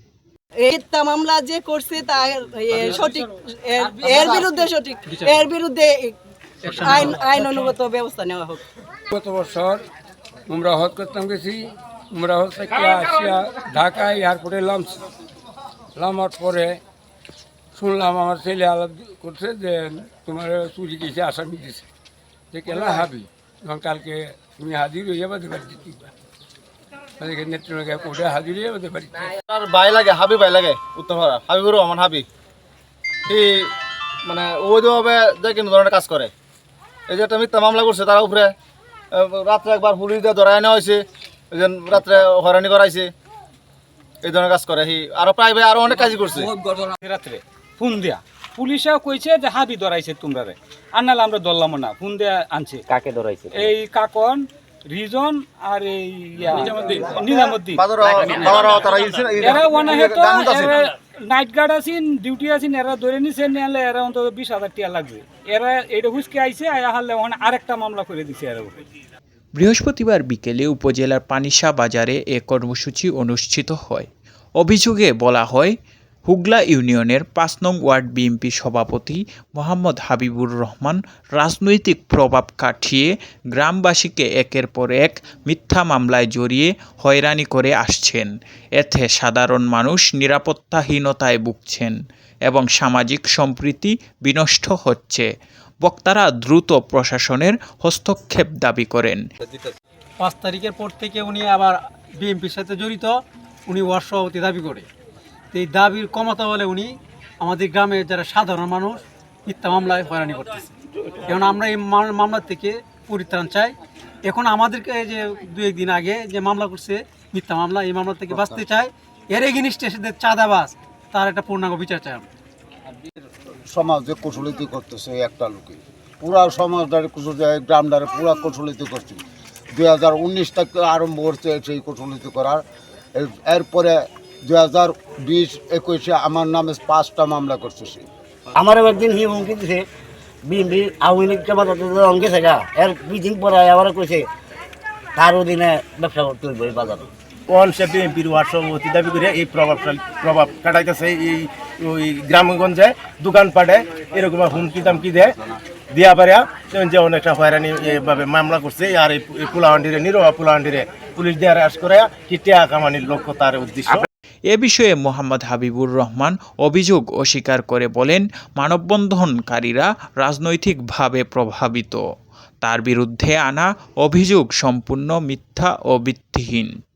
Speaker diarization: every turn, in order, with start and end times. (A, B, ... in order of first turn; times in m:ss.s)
0:00.6-0:08.6 A
0:04.1-0:04.5 B
0:05.0-0:05.5 B
0:06.6-0:07.7 B
0:09.1-0:09.9 C
0:10.5-0:15.0 C
0:16.0-0:16.8 C
0:17.7-0:21.8 C
0:22.5-0:26.1 C
0:27.2-0:29.3 C
0:29.5-0:32.2 D
0:33.3-0:33.7 D
0:34.2-0:36.3 D
0:37.1-0:38.5 D
0:39.1-0:43.1 D
0:44.2-0:46.5 D
0:47.0-0:52.8 E
0:52.9-0:53.7 F
0:53.5-1:08.8 E
0:57.8-1:00.7 D
1:09.6-1:14.1 G
1:14.6-1:15.8 G
1:16.3-1:31.9 G
1:32.5-1:35.3 G
1:35.8-1:39.2 G
1:40.2-1:43.2 B
1:43.7-1:44.9 B
1:45.5-1:50.7 B
1:51.3-1:53.7 B
1:54.2-2:02.2 B
1:58.3-1:58.6 H
2:03.7-2:12.6 H
2:13.2-2:18.1 H
2:18.6-2:19.8 F
2:20.4-2:24.3 F
2:25.2-2:27.1 F
2:27.5-2:35.3 I
2:35.9-2:44.1 I
2:44.5-2:52.0 G
2:52.6-2:56.7 G